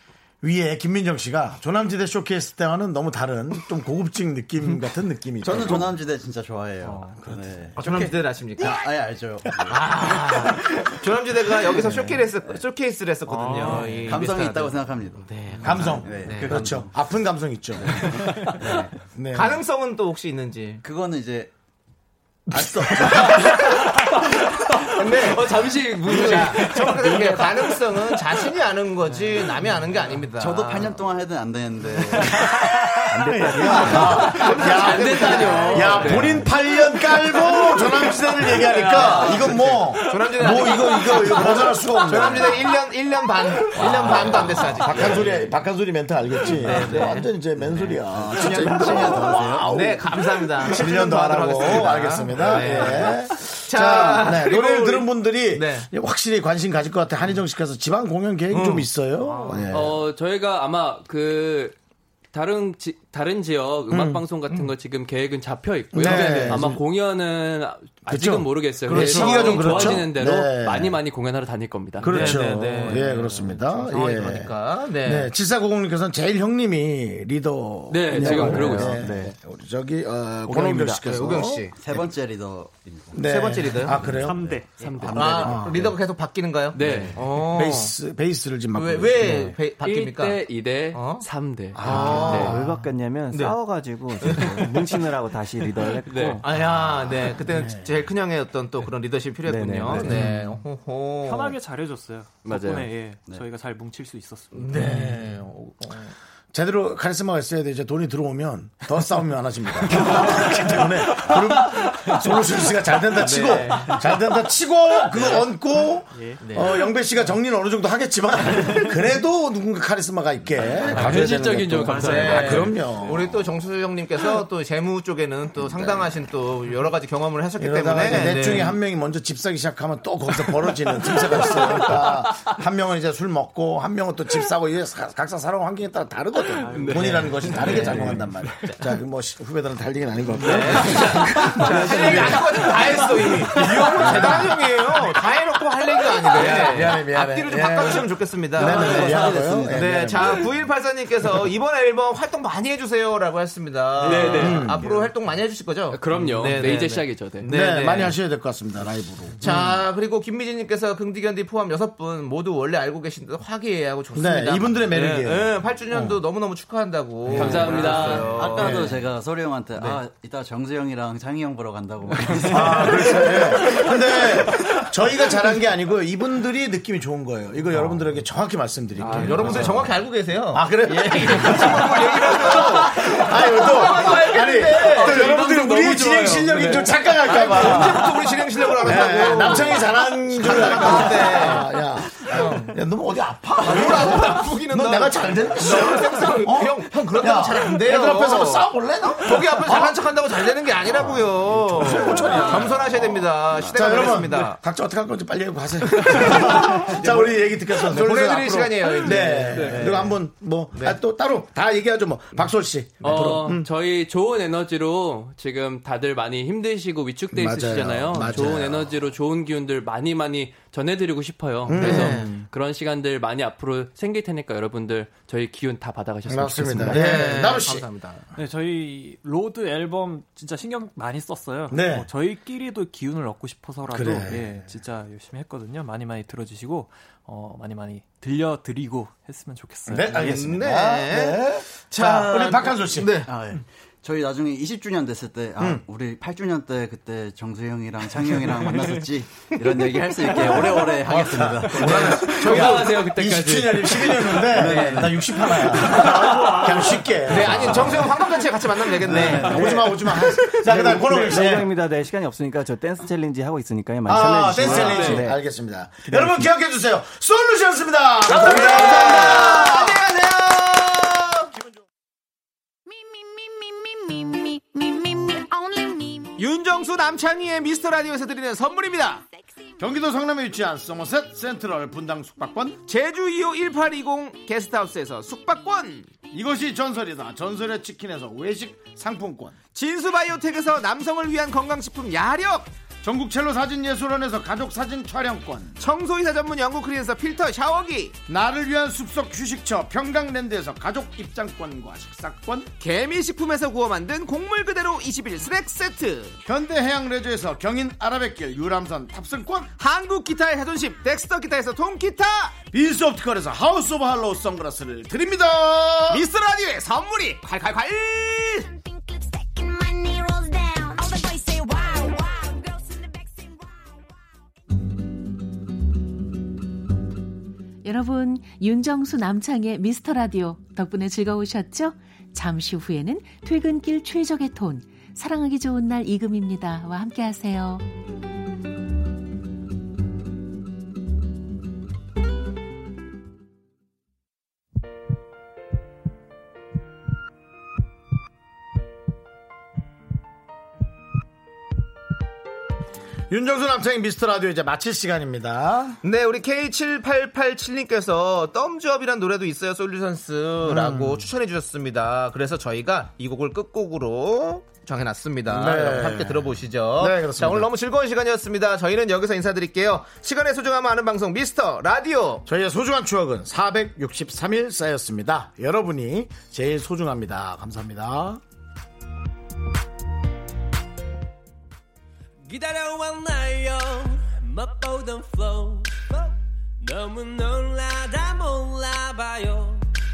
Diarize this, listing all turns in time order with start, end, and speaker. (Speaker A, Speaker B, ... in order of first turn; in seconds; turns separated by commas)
Speaker A: 0.4-6.0, Speaker B: 5.4-9.9, Speaker C: 6.8-7.2, Speaker A: 7.2-8.8, Speaker D: 7.8-8.8, Speaker A: 9.6-10.9, Speaker D: 9.7-16.7, Speaker A: 11.6-12.2, Speaker C: 13.3-14.3, Speaker B: 13.7-16.9, Speaker A: 15.6-18.6, Speaker B: 18.5-18.9, Speaker A: 19.1-19.6, Speaker D: 19.3-20.8, Speaker B: 20.8-21.5, Speaker A: 22.5-24.1, Speaker D: 23.1-23.5, Speaker E: 23.9-27.5, Speaker D: 24.9-30.9, Speaker C: 29.1-31.0, Speaker B: 30.4-32.6, Speaker C: 32.1-33.0, Speaker B: 33.1-34.3, Speaker F: 33.2-34.1, Speaker A: 33.3-42.7, Speaker E: 33.8-36.5, Speaker D: 34.3-36.1, Speaker C: 34.7-36.0, Speaker E: 38.6-39.8, Speaker D: 38.8-45.5, Speaker A: 43.6-60.0, Speaker D: 46.6-48.0, Speaker B: 46.6-49.9, Speaker D: 48.5-55.9, Speaker D: 58.5-58.9, Speaker C: 59.2-59.7, Speaker E: 59.7-61.8, Speaker E: 62.3-72.4, Speaker A: 63.9-64.2, Speaker A: 65.9-66.8, Speaker D: 66.0-66.7, Speaker A: 68.1-71.0, Speaker D: 68.9-70.0, Speaker A: 72.0-82.0, Speaker D: 72.0-75.3, Speaker E: 77.9-79.1, Speaker F: 78.1-79.4, Speaker F: 80.6-80.9, Speaker D: 80.9-81.8, Speaker B: 81.7-83.2, Speaker A: 83.1-86.0, Speaker D: 83.2-84.0, Speaker C: 83.9-85.1, Speaker E: 84.8-85.7, Speaker D: 85.1-88.0, Speaker E: 86.7-87.2, Speaker B: 86.8-87.2, Speaker A: 87.3-89.6, Speaker D: 88.7-91.3, Speaker E: 89.8-92.6, Speaker A: 91.7-92.6, Speaker D: 91.8-92.6, Speaker F: 92.0-96.4, Speaker D: 93.3-93.6, Speaker D: 94.2-94.6, Speaker E: 96.1-96.4, Speaker D: 96.4-101.6, Speaker A: 96.5-97.9, Speaker F: 99.5-100.3, Speaker C: 100.1-100.4, Speaker C: 101.2-105.2, Speaker E: 102.4-102.9, Speaker D: 104.5-106.0, Speaker A: 106.5-123.3, Speaker D: 113.1-114.0, Speaker D: 115.1-115.5, Speaker C: 116.1-117.2, Speaker D: 116.4-116.8, Speaker C: 118.6-118.9, Speaker D: 120.9-121.1, Speaker C: 120.9-121.3, Speaker E: 121.0-122.7, Speaker C: 121.8-122.7, Speaker D: 122.0-128.8, Speaker A: 127.6-142.9, Speaker C: 136.6-138.2, Speaker E: 136.7-138.2, Speaker D: 137.0-138.7, Speaker D: 140.4-158.2, Speaker C: 140.5-143.0, Speaker A: 144.0-144.7, Speaker A: 146.3-150.5, Speaker C: 154.0-155.1, Speaker E: 154.0-154.7, Speaker A: 154.3-154.9, Speaker E: 155.9-157.5, Speaker A: 157.5-159.8, Speaker D: 159.4-169.0, Speaker A: 164.1-166.2, Speaker A: 167.3-167.9, Speaker E: 167.3-168.7, Speaker B: 167.9-173.1, Speaker A: 168.6-169.0, Speaker A: 172.4-200.1, Speaker D: 172.6-173.4, Speaker E: 179.0-179.7, Speaker D: 179.0-192.8, Speaker E: 184.8-187.0, Speaker D: 193.6-204.6, Speaker A: 200.9-213.7, Speaker D: 205.9-211.0, Speaker E: 209.5-209.9, Speaker E: 213.0-227.3, Speaker A: 217.3-219.0, Speaker A: 221.7-222.4, Speaker D: 221.7-222.4, Speaker A: 226.3-227.9, Speaker D: 226.9-228.2, Speaker C: 228.4-240.3, Speaker A: 231.7-232.1, Speaker A: 233.9-234.5, Speaker A: 239.9-243.2, Speaker D: 240.2-243.3, Speaker B: 243.2-252.1, Speaker A: 250.3-258.4, Speaker D: 251.7-252.9, Speaker E: 252.0-254.9, Speaker B: 254.4-255.3, Speaker D: 254.6-255.1, Speaker C: 255.9-257.2, Speaker D: 257.2-260.1, Speaker A: 259.0-261.8, Speaker E: 259.4-259.8, Speaker F: 260.6-265.4, Speaker A: 264.1-270.1, Speaker E: 264.6-265.2, Speaker F: 266.1-266.4, Speaker D: 268.3-271.5, Speaker E: 268.3-269.5, Speaker G: 272.9-276.4, Speaker D: 276.4-279.2, Speaker A: 279.8-282.8, Speaker D: 282.9-286.1, Speaker A: 286.3-289.6, Speaker D: 289.8-292.7, Speaker A: 293.0-295.8, Speaker D: 295.8-298.1, Speaker A: 298.3-302.7, Speaker D: 302.8-306.4, Speaker A: 306.4-309.7, Speaker D: 309.8-312.6, Speaker A: 312.7-316.3, Speaker D: 316.1-318.7, Speaker G: 318.6-324.3, Speaker H: 327.8-337.8, Speaker A: 353.3-356.0, Speaker D: 356.0-372.4, Speaker A: 360.6-361.3, Speaker A: 365.5-367.7, Speaker A: 372.5-378.4, Speaker I: 382.4-389.9